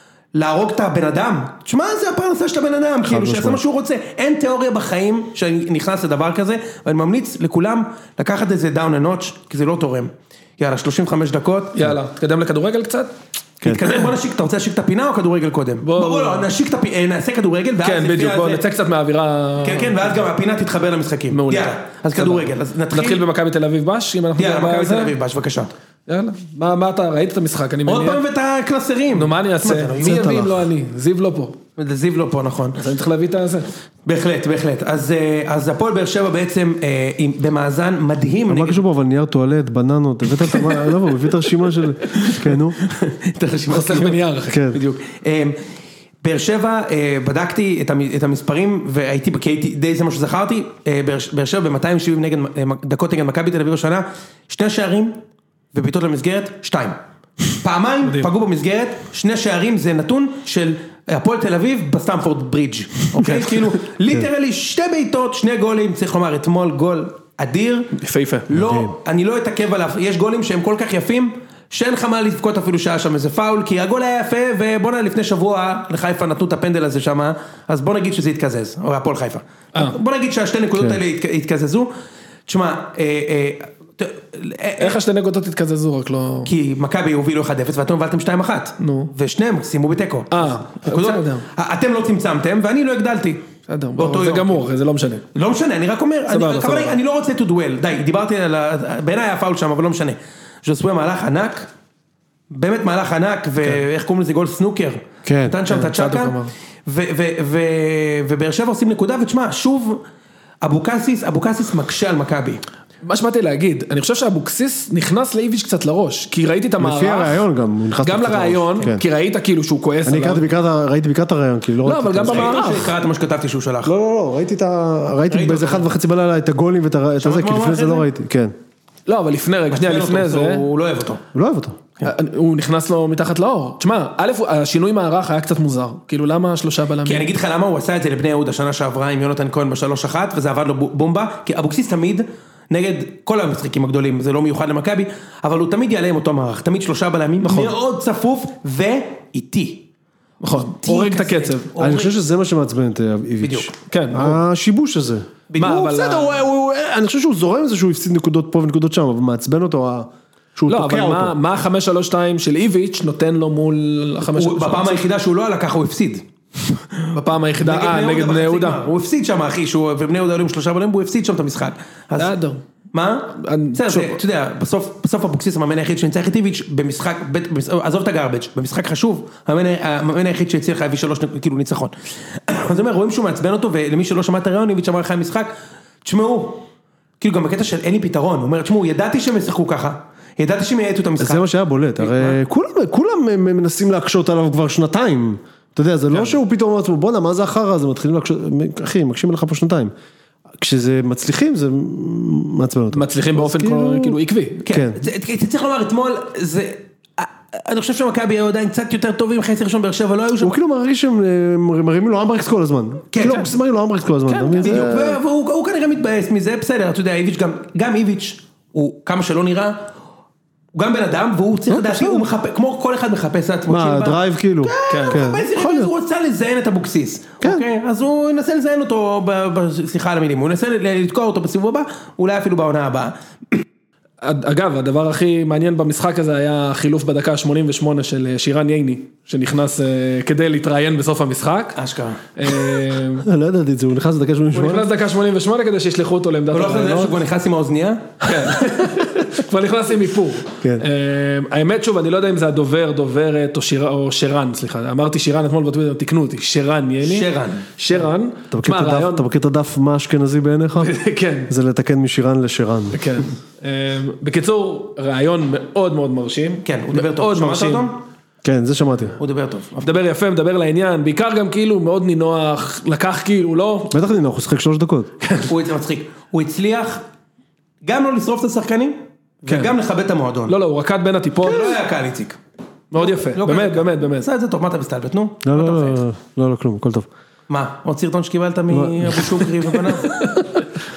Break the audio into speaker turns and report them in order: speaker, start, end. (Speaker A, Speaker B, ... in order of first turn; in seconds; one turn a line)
Speaker A: 0.3-11.8
Speaker B: 3.0-3.6
Speaker C: 11.8-13.1
Speaker B: 13.6-14.0
Speaker A: 13.6-18.6
Speaker C: 15.8-16.5
Speaker C: 17.8-20.2
Speaker A: 19.6-23.2
Speaker C: 21.3-25.1
Speaker A: 24.4-25.7
Speaker C: 26.1-28.2
Speaker A: 27.9-30.4
Speaker C: 29.1-31.6
Speaker B: 30.0-30.6
Speaker A: 31.8-32.8
Speaker C: 32.8-33.7
Speaker A: 34.1-38.8
Speaker B: 38.5-42.8
Speaker A: 42.1-45.6
Speaker C: 43.7-44.7
Speaker B: 44.5-44.8
Speaker A: 46.2-55.2
Speaker A: 55.7-57.0
Speaker A: 57.5-67.9
Speaker C: 63.2-63.6
Speaker C: 68.0-68.5
Speaker A: 68.5-81.9
Speaker B: 68.5-68.9
Speaker B: 80.8-81.0
Speaker A: 82.5-85.0
Speaker C: 84.8-86.5
Speaker A: 86.5-93.5
Speaker C: 88.8-89.1
Speaker C: 90.3-91.5
Speaker C: 93.7-95.3
Speaker A: 94.0-94.7
Speaker A: 95.3-101.7
Speaker C: 96.3-97.0
Speaker A: 102.5-110.0
Speaker B: 105.2-105.6
Speaker C: 105.7-106.5
Speaker A: 110.6-112.6
Speaker C: 113.0-117.5
Speaker B: 116.8-119.0
Speaker C: 118.0-120.5
Speaker B: 120.1-122.6
Speaker C: 121.8-123.0
Speaker A: 122.2-123.9
Speaker B: 123.8-128.5
Speaker A: 125.3-125.9
Speaker A: 127.2-128.1
Speaker C: 129.1-130.7
Speaker A: 129.7-131.2
Speaker B: 131.3-131.8
Speaker C: 132.0-137.3
Speaker A: 137.1-149.8
Speaker C: 147.4-147.7
Speaker C: 150.4-151.7
Speaker A: 150.6-152.1
Speaker B: 151.8-161.3
Speaker A: 153.4-153.7
Speaker C: 153.9-154.4
Speaker A: 155.5-155.8
Speaker C: 155.6-156.4
Speaker C: 160.7-165.1
Speaker A: 164.2-172.3
Speaker C: 167.1-168.8
Speaker C: 172.2-172.6
Speaker A: 172.9-185.5
Speaker C: 173.3-174.2
Speaker A: 186.0-186.6
Speaker A: 187.2-191.5
Speaker B: 191.2-199.9
Speaker A: 192.0-192.4
Speaker B: 200.6-204.2
Speaker C: 202.9-204.6
Speaker A: 204.6-210.6
Speaker B: 204.7-205.0
Speaker B: 210.4-215.2
Speaker A: 213.1-213.5
Speaker C: 214.3-214.9
Speaker A: 214.6-219.9
Speaker A: 220.7-233.6
Speaker B: 221.7-222.3
Speaker B: 223.7-225.9
Speaker C: 224.9-225.2
Speaker C: 234.2-241.8
Speaker A: 241.8-242.2
Speaker C: 242.4-243.3
Speaker B: 243.2-244.9
Speaker C: 244.5-247.2
Speaker A: 246.5-248.3
Speaker C: 248.2-259.2
Speaker A: 257.0-257.7
Speaker B: 258.5-260.9
Speaker C: 260.8-261.5
Speaker B: 261.5-263.0
Speaker C: 262.9-267.9
Speaker A: 266.6-268.0
Speaker B: 268.4-269.2
Speaker A: 269.2-270.0
Speaker C: 269.8-273.9
Speaker B: 273.9-275.1
Speaker C: 275.2-275.5
Speaker A: 275.4-277.0
Speaker A: 277.8-280.5
Speaker C: 279.5-279.7
Speaker C: 280.5-281.8
Speaker A: 281.4-282.4
Speaker C: 282.9-284.3
Speaker A: 283.0-286.0
Speaker B: 285.4-287.1
Speaker A: 287.5-290.2
Speaker B: 288.7-289.5
Speaker C: 290.0-290.5